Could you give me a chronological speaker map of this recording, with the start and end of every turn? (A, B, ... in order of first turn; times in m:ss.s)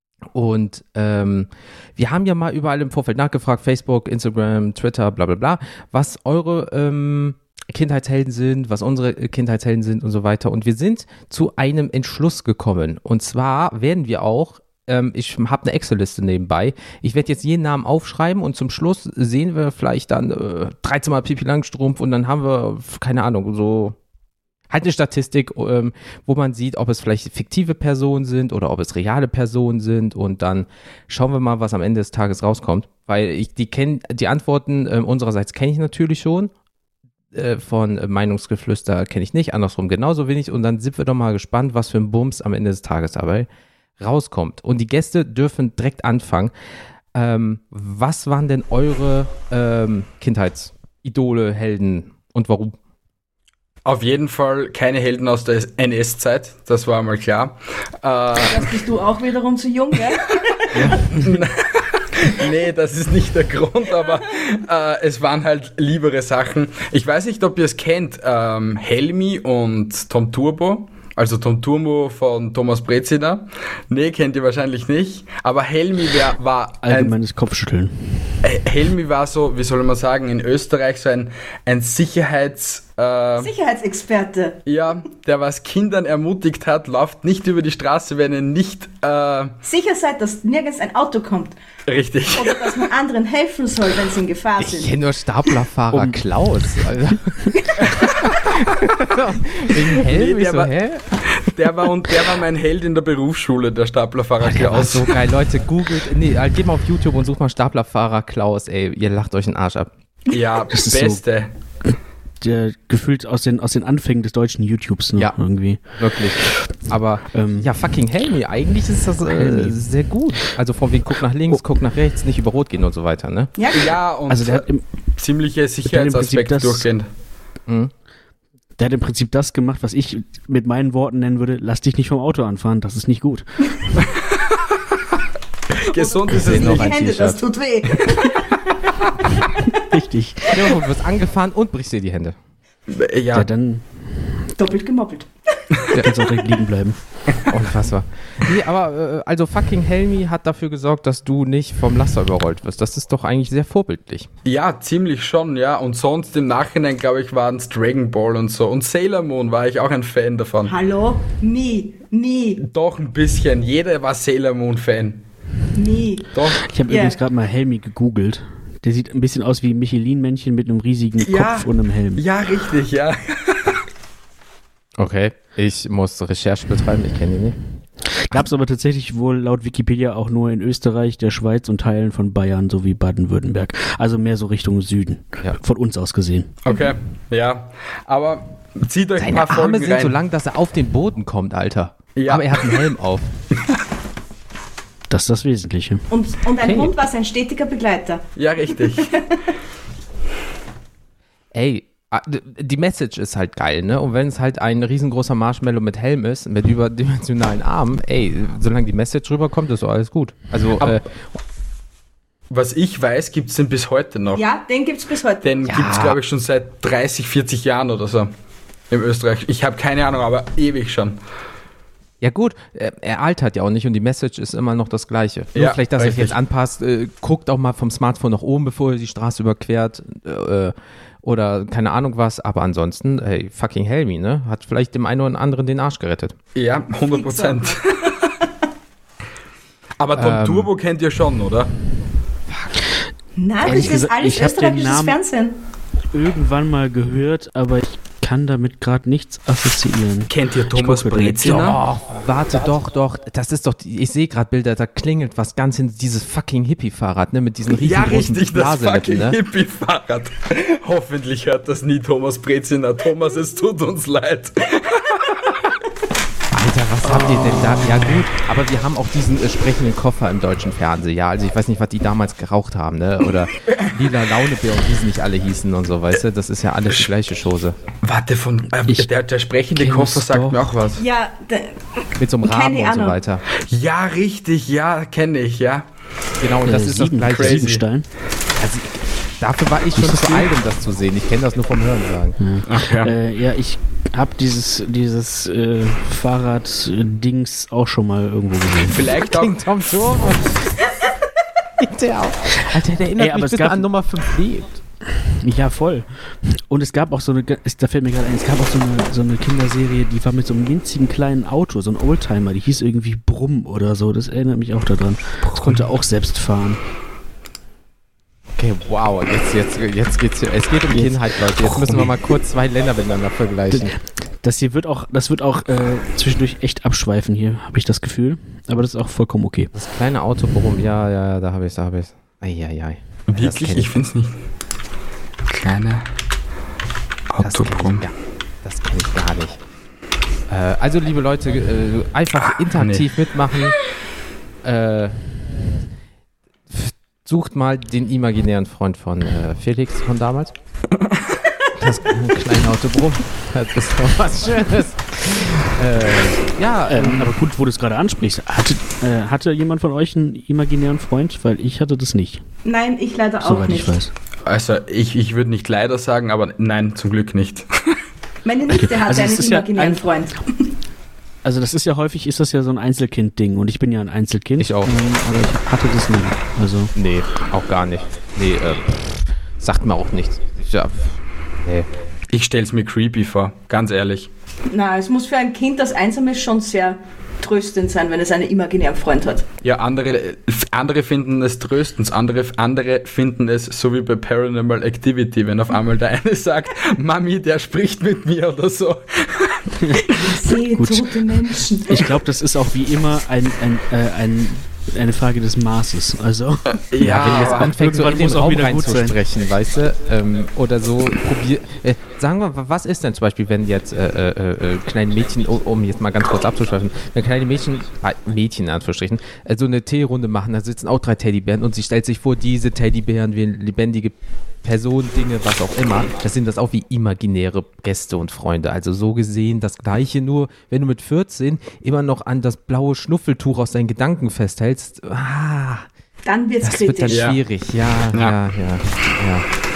0:00.3-0:24.0 A
0:24.7-0:36.5 A
0:37.3-0:43.5 A
0:44.0-0:46.5 A
0:47.1-0:52.8 A
0:53.8-0:58.7 B
0:58.3-1:01.2 C
1:00.7-1:01.2 A
1:01.1-1:17.1 B
1:16.8-1:18.4 D
1:18.4-1:23.5 B
1:23.4-1:24.6 C
1:24.6-1:29.5 B
1:29.6-1:31.5 C
1:31.9-1:32.8 B
1:32.3-1:34.9 C
1:34.6-1:37.5 A
1:35.9-1:36.2 D
1:38.2-1:41.4 A
1:39.8-1:40.7 B
1:41.3-1:45.2 B
1:44.4-1:49.9 A
1:50.3-1:51.5 B
1:50.7-1:51.2 D
1:51.8-1:56.0 D
1:55.1-2:03.5 A
1:57.3-1:57.7 D
1:59.3-1:59.8 D
2:03.6-2:03.9 C
2:03.7-2:07.1 B
2:04.3-2:04.8 D
2:05.8-2:06.9 D
2:07.7-2:07.9 A
2:08.8-2:14.2 D
2:15.8-2:16.9 B
2:15.9-2:18.6 C
2:16.3-2:17.4 A
2:19.8-2:20.6 D
2:20.5-2:22.4 A
2:22.9-2:23.5 B
2:23.3-2:24.4 D
2:24.6-2:25.8 C
2:26.0-2:27.0 D
2:27.5-2:34.3 A
2:34.4-2:40.7 B
2:40.6-2:42.6 C
2:42.6-2:45.2 B
2:45.7-2:46.3 C
2:46.3-2:46.7 B
2:46.6-2:52.2 D
2:46.8-2:47.2 C
2:51.2-2:53.8 B
2:55.0-2:57.6 A
2:58.2-3:06.5 D
3:06.6-3:10.1 B
3:09.2-3:13.3 A
3:12.2-3:12.8 B
3:15.1-3:16.1 D
3:16.1-3:19.4 C
3:16.6-3:16.9 A
3:18.4-3:19.1 B
3:21.5-3:31.2 A
3:32.5-3:34.4 B
3:34.3-3:35.5 C
3:35.4-3:38.3 B
3:35.7-3:36.2 A
3:38.9-3:41.2 B
3:42.2-3:56.4 A
3:45.5-3:46.3 B
3:56.5-3:58.1 B
3:57.1-3:58.1 C
4:00.0-4:01.7 B
4:00.1-4:00.7 A
4:02.5-4:02.7 A
4:03.4-4:05.6 C
4:03.6-4:05.2 D
4:06.1-4:11.7 D
4:10.3-4:11.8 B
4:11.4-4:19.4 A
4:17.7-4:25.5 B
4:26.5-4:37.8 A
4:27.2-4:27.7 B
4:38.0-4:41.0 B
4:39.7-4:40.8 D
4:41.0-4:43.2 C
4:42.2-4:43.4 A
4:43.6-4:45.8 B
4:46.4-4:47.7 A
4:46.6-4:48.1 D
4:47.2-4:47.8 B
4:48.6-4:52.4 A
4:49.9-4:50.5 D
4:52.4-4:59.2 D
4:52.7-4:53.1 B
4:58.8-4:59.6 B
4:59.2-5:00.9 A
5:01.8-5:04.8 A
5:03.2-5:03.8 D
5:05.1-5:16.8 D
5:15.5-5:15.8 B
5:18.6-5:23.9 A
5:21.6-5:22.1 B
5:23.7-5:29.7 D
5:29.7-5:33.9 A
5:33.3-5:34.4 B
5:35.5-5:36.0 B
5:37.3-5:38.0 B
5:37.4-5:39.6 A
5:40.5-5:43.8 A
5:42.6-5:43.0 B
5:44.6-5:45.2 A
5:46.7-5:50.5 A
5:51.8-5:57.3 A
5:56.9-6:02.4 D
6:02.6-6:03.9 C
6:03.4-6:04.1 D
6:04.4-6:08.0 B
6:08.4-6:10.6 C
6:08.7-6:10.0 D
6:11.4-6:16.9 D
6:14.6-6:15.0 A
6:16.9-6:21.8 A
6:22.3-6:24.3 B
6:24.7-6:29.4 C
6:29.6-6:39.7 B
6:39.8-6:40.1 D
6:40.1-6:41.9 C
6:40.8-6:49.2 D
6:46.9-6:47.8 B
6:47.0-7:15.9 A
7:16.2-7:17.2 C
7:16.6-7:19.5 A
7:17.1-7:17.4 B